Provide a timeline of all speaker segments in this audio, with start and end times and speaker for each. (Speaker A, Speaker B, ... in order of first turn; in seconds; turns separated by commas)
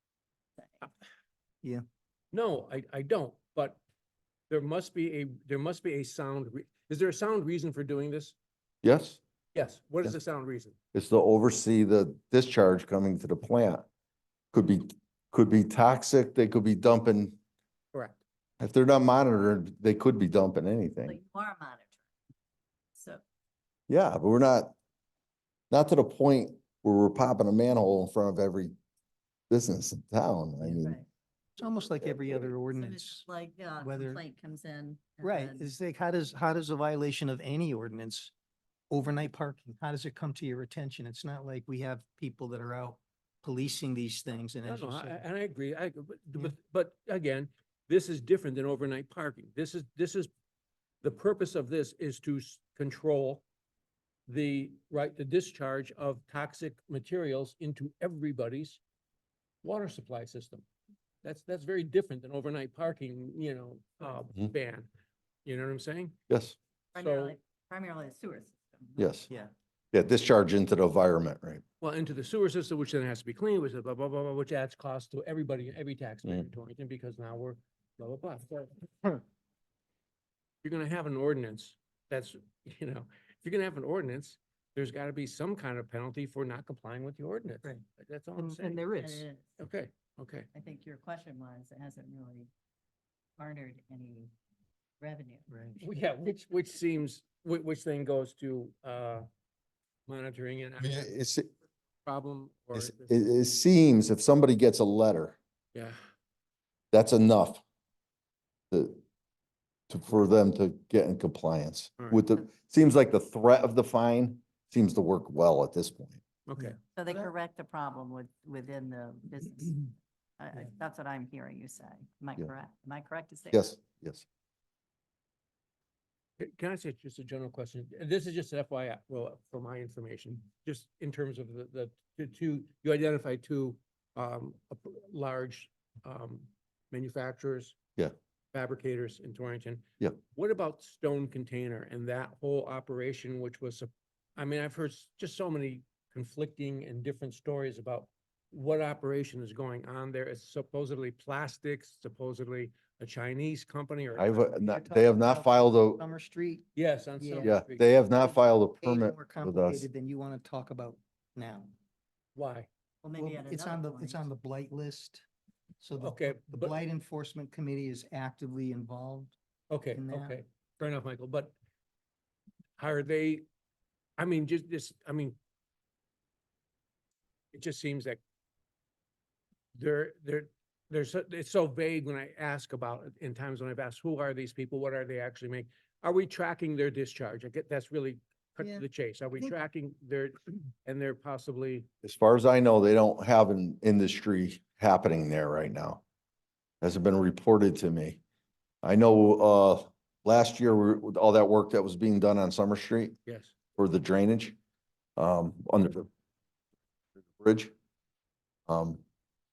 Speaker A: 2.3-3.8, Speaker A: 4.5-8.3, Speaker B: 8.8-9.2, Speaker A: 9.5-10.7, Speaker B: 10.9-13.8, Speaker B: 14.5-17.4, Speaker A: 17.9-18.2, Speaker B: 18.6-21.2, Speaker C: 21.1-21.9, Speaker C: 22.9-23.2, Speaker B: 23.9-24.7, Speaker B: 25.7-28.7, Speaker B: 29.5-31.0, Speaker C: 30.6-31.1, Speaker D: 31.6-33.2, Speaker B: 32.1-32.5, Speaker C: 32.7-35.7, Speaker D: 33.8-34.2, Speaker D: 35.2-38.3, Speaker D: 38.9-45.2, Speaker A: 44.6-50.3, Speaker A: 51.0-53.4, Speaker A: 54.3-58.8, Speaker A: 59.6-60.6, Speaker A: 61.2-64.9, Speaker A: 65.4-66.2, Speaker B: 66.3-66.5, Speaker A: 66.9-67.3, Speaker C: 66.9-69.5, Speaker B: 69.0-69.3, Speaker B: 69.9-71.6, Speaker A: 71.8-79.2, Speaker A: 80.6-88.9, Speaker D: 88.3-89.2, Speaker C: 88.9-89.6, Speaker A: 89.6-90.5, Speaker C: 90.5-92.5, Speaker C: 93.4-94.3, Speaker C: 95.0-95.5, Speaker D: 95.5-95.8, Speaker A: 95.8-99.3, Speaker A: 100.1-101.1, Speaker B: 100.8-101.5, Speaker A: 102.0-103.2, Speaker B: 102.7-105.4, Speaker B: 106.9-107.6, Speaker B: 108.7-109.0, Speaker B: 109.9-116.2, Speaker A: 116.5-116.8, Speaker D: 116.6-117.3, Speaker C: 116.9-123.6, Speaker B: 123.5-124.2, Speaker A: 126.4-137.8, Speaker A: 138.5-154.5, Speaker B: 154.2-156.0, Speaker D: 154.7-156.6, Speaker A: 156.8-157.9, Speaker D: 157.2-157.5, Speaker B: 157.4-159.8, Speaker D: 158.2-161.7, Speaker A: 162.3-162.7, Speaker C: 163.0-164.3, Speaker D: 163.2-165.2, Speaker D: 165.8-169.3, Speaker A: 166.0-166.8, Speaker A: 169.7-171.5, Speaker D: 169.9-170.4, Speaker A: 172.8-173.4, Speaker A: 174.2-175.4, Speaker A: 177.5-178.2, Speaker A: 179.8-191.9, Speaker D: 188.6-188.8, Speaker B: 192.0-196.0, Speaker B: 196.8-198.2, Speaker B: 198.8-203.2, Speaker A: 203.2-203.5, Speaker B: 203.8-204.6, Speaker B: 205.2-206.1, Speaker B: 207.2-207.7, Speaker B: 208.7-209.0